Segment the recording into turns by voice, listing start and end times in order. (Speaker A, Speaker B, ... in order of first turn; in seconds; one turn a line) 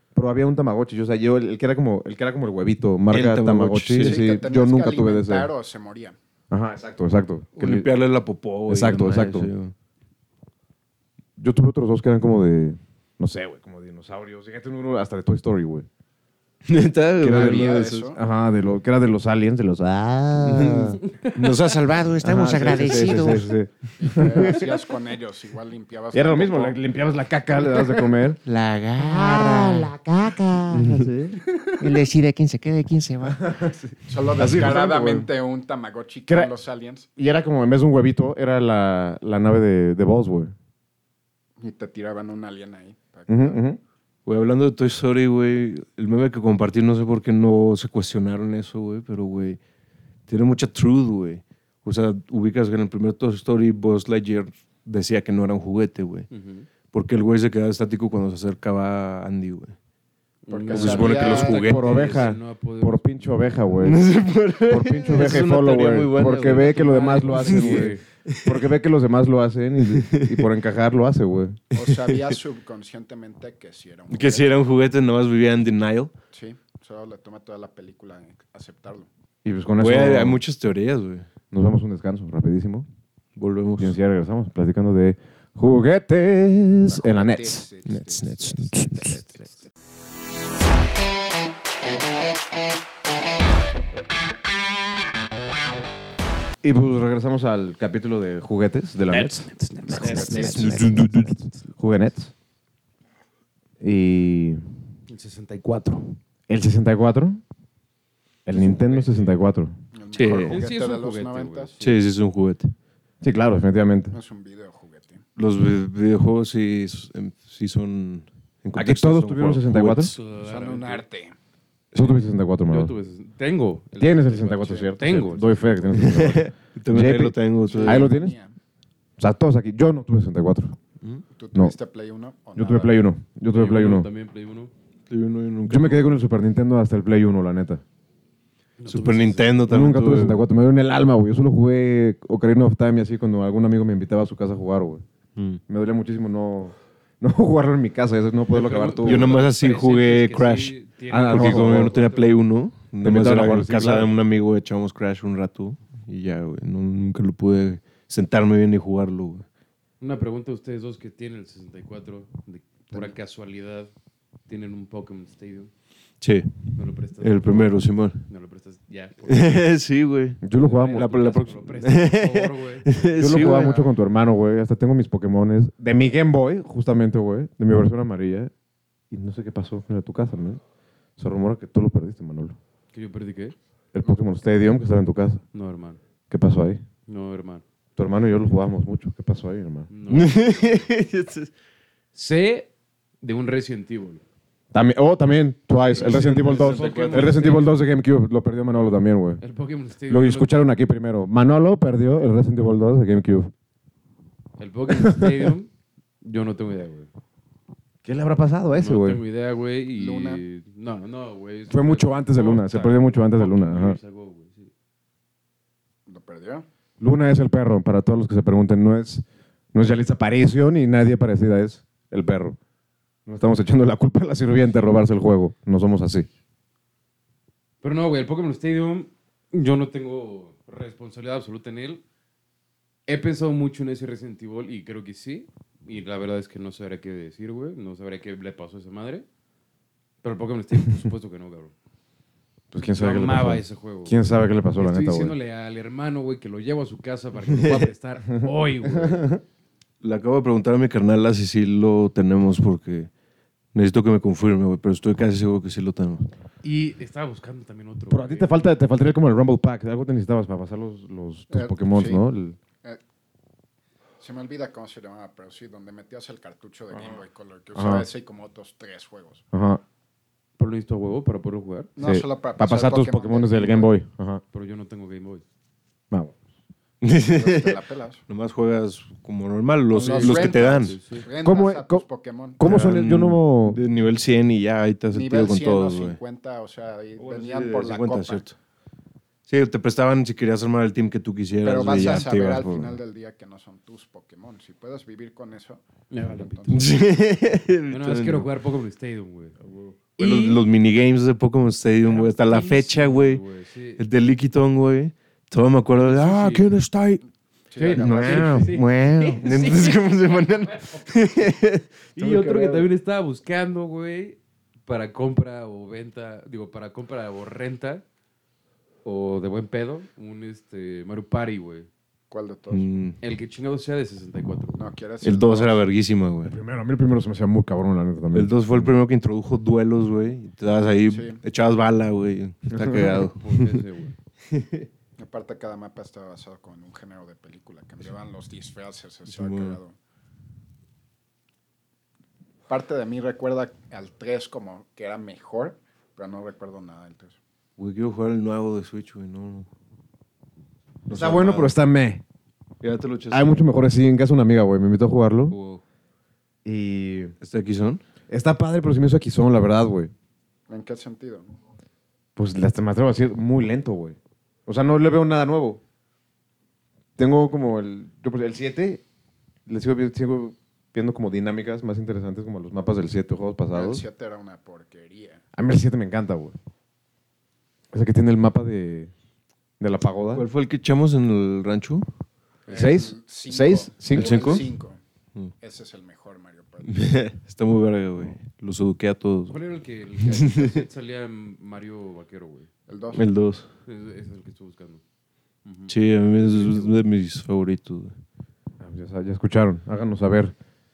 Speaker A: 0.1-5.5
Speaker B: 3.1-4.3
Speaker C: 4.0-6.2
Speaker A: 6.5-7.9
Speaker B: 7.5-9.7
Speaker A: 8.7-9.5
Speaker A: 11.4-15.9
Speaker B: 16.6-18.1
Speaker A: 17.2-21.0
Speaker C: 17.2-18.2
Speaker B: 20.4-21.8
Speaker D: 21.4-23.5
Speaker A: 22.2-24.6
Speaker B: 22.7-23.3
Speaker C: 24.0-26.8
Speaker B: 24.2-24.5
Speaker A: 26.1-28.4
Speaker D: 28.4-31.0
Speaker A: 29.0-30.0
Speaker A: 30.6-31.4
Speaker D: 31.8-33.5
Speaker A: 33.4-35.3
Speaker C: 34.0-37.1
Speaker A: 36.3-36.5
Speaker A: 37.2-40.5
Speaker C: 41.6-43.6
Speaker A: 43.3-43.8
Speaker B: 44.2-49.6
Speaker B: 50.3-56.3
Speaker E: 56.3-56.7
Speaker B: 56.9-59.7
Speaker E: 60.5-63.6
Speaker C: 60.5-61.8
Speaker B: 60.7-62.1
Speaker A: 61.4-64.0
Speaker B: 63.8-68.7
Speaker A: 64.7-71.6
Speaker E: 66.3-68.0
Speaker B: 69.8-70.5
Speaker B: 71.7-72.4
Speaker C: 71.7-74.5
Speaker B: 74.1-76.1
Speaker C: 76.3-79.1
Speaker A: 79.4-80.4
Speaker B: 79.8-81.3
Speaker A: 81.5-82.9
Speaker B: 83.3-84.0
Speaker A: 83.8-87.7
Speaker C: 86.9-89.5
Speaker B: 87.8-89.2
Speaker A: 96.6-102.3
Speaker E: 99.1-101.0
Speaker B: 100.0-101.4
Speaker D: 100.0-100.7
Speaker A: 103.8-104.6
Speaker E: 105.1-106.2
Speaker A: 106.5-107.4
Speaker A: 108.4-109.7
Speaker E: 108.6-109.4
Speaker C: 109.9-111.7
Speaker B: 110.1-110.6
Speaker E: 110.2-112.0
Speaker B: 111.8-112.7
Speaker A: 113.2-114.2
Speaker C: 114.1-115.2
Speaker B: 115.4-120.2
Speaker A: 118.7-120.1
Speaker E: 120.1-121.0
Speaker C: 120.4-121.3
Speaker A: 121.9-122.9
Speaker E: 122.7-126.0
Speaker A: 124.0-128.3
Speaker B: 125.9-128.1
Speaker C: 127.6-128.5
Speaker A: 129.2-130.8
Speaker C: 131.3-133.1
Speaker A: 132.6-134.1
Speaker E: 133.5-134.7
Speaker B: 135.1-136.2
Speaker A: 135.7-137.8
Speaker E: 138.8-139.6
Speaker B: 138.8-140.4
Speaker A: 139.7-145.0
Speaker B: 145.3-145.6
Speaker A: 145.7-149.4
Speaker E: 148.5-152.4
Speaker B: 149.0-159.4
Speaker A: 151.1-151.9
Speaker A: 153.0-154.1
Speaker E: 160.0-163.9
Speaker E: 164.5-165.7
Speaker B: 166.2-168.2
Speaker E: 166.7-169.7
Speaker B: 169.3-173.8
Speaker A: 170.4-171.1
Speaker E: 170.5-173.7
Speaker A: 173.2-178.5
Speaker A: 179.1-180.6
Speaker A: 181.2-182.6
Speaker E: 182.9-183.6
Speaker A: 183.9-185.4
Speaker E: 185.5-186.0
Speaker A: 186.3-186.8
Speaker E: 187.1-187.6
Speaker A: 188.0-189.9
Speaker E: 189.9-190.9
Speaker B: 190.1-191.5
Speaker E: 192.1-192.7
Speaker E: 193.2-194.2
Speaker A: 194.7-199.4
Speaker E: 195.9-197.8
Speaker B: 195.9-197.6
Speaker E: 198.8-200.6
Speaker A: 200.1-203.5
Speaker E: 204.6-205.7
Speaker A: 205.0-205.5
Speaker E: 206.2-207.1
Speaker A: 208.0-209.2
Speaker E: 208.7-214.7
Speaker C: 209.9-210.4
Speaker A: 211.7-214.0
Speaker C: 216.1-216.7
Speaker A: 217.0-222.6
Speaker A: 223.2-226.3
Speaker E: 227.8-232.0
Speaker E: 233.1-239.2
Speaker E: 240.2-241.7
Speaker A: 242.7-245.3
Speaker E: 242.8-244.2
Speaker E: 244.8-249.3
Speaker B: 247.5-247.9
Speaker A: 248.3-249.4
Speaker B: 250.0-253.1
Speaker B: 253.7-256.3
Speaker E: 256.6-258.6
Speaker A: 258.1-262.6
Speaker C: 261.5-262.2
Speaker C: 264.2-269.4
Speaker A: 266.9-267.2
Speaker A: 267.7-268.1
Speaker A: 269.5-269.8
Speaker E: 270.6-271.9
Speaker C: 271.9-273.9
Speaker A: 272.0-274.4
Speaker E: 274.5-275.4
Speaker B: 277.0-281.0
Speaker C: 277.3-278.2
Speaker C: 279.9-282.6
Speaker E: 280.0-281.3
Speaker A: 281.4-282.0
Speaker A: 282.6-283.8
Speaker B: 282.6-286.2
Speaker C: 285.1-288.4
Speaker B: 287.2-288.6
Speaker B: 289.5-293.0
Speaker C: 291.6-296.9
Speaker E: 296.1-296.8
Speaker B: 296.7-298.5
Speaker E: 297.9-299.6
Speaker B: 299.6-303.4
Speaker E: 300.2-300.6
Speaker E: 302.0-304.0
Speaker B: 304.0-307.2
Speaker E: 306.0-306.7
Speaker C: 307.7-308.8
Speaker E: 307.8-311.1
Speaker B: 307.9-312.9
Speaker D: 308.6-309.4
Speaker E: 312.1-318.0
Speaker E: 319.0-321.9
Speaker C: 322.3-323.0
Speaker B: 322.7-323.2
Speaker E: 323.2-324.9
Speaker C: 324.7-325.9
Speaker B: 325.2-326.6
Speaker A: 326.4-328.9
Speaker B: 328.3-333.8
Speaker C: 331.1-331.4
Speaker A: 332.7-333.2
Speaker E: 333.4-334.1
Speaker B: 334.5-334.9
Speaker C: 335.2-339.9
Speaker B: 339.3-339.8
Speaker C: 342.7-347.4
Speaker B: 347.8-349.7
Speaker B: 351.1-351.7
Speaker A: 351.1-352.2
Speaker B: 352.8-353.6
Speaker A: 353.3-355.6
Speaker B: 355.5-355.8
Speaker A: 356.6-357.3
Speaker B: 357.4-358.0
Speaker A: 358.3-360.1
Speaker C: 360.7-361.5
Speaker A: 362.4-365.8
Speaker A: 367.2-369.0
Speaker A: 369.7-374.0
Speaker C: 373.7-375.4
Speaker A: 375.5-376.6
Speaker A: 377.9-379.1
Speaker A: 379.8-380.5
Speaker B: 380.3-382.1
Speaker C: 382.7-385.0
Speaker A: 382.7-384.5
Speaker B: 384.0-384.7
Speaker C: 385.6-387.0
Speaker B: 386.8-389.6
Speaker E: 389.5-392.7
Speaker B: 390.2-390.8
Speaker C: 392.9-393.3
Speaker B: 393.1-393.7
Speaker E: 393.8-395.0
Speaker E: 395.6-397.0
Speaker B: 395.9-398.2
Speaker A: 398.8-400.5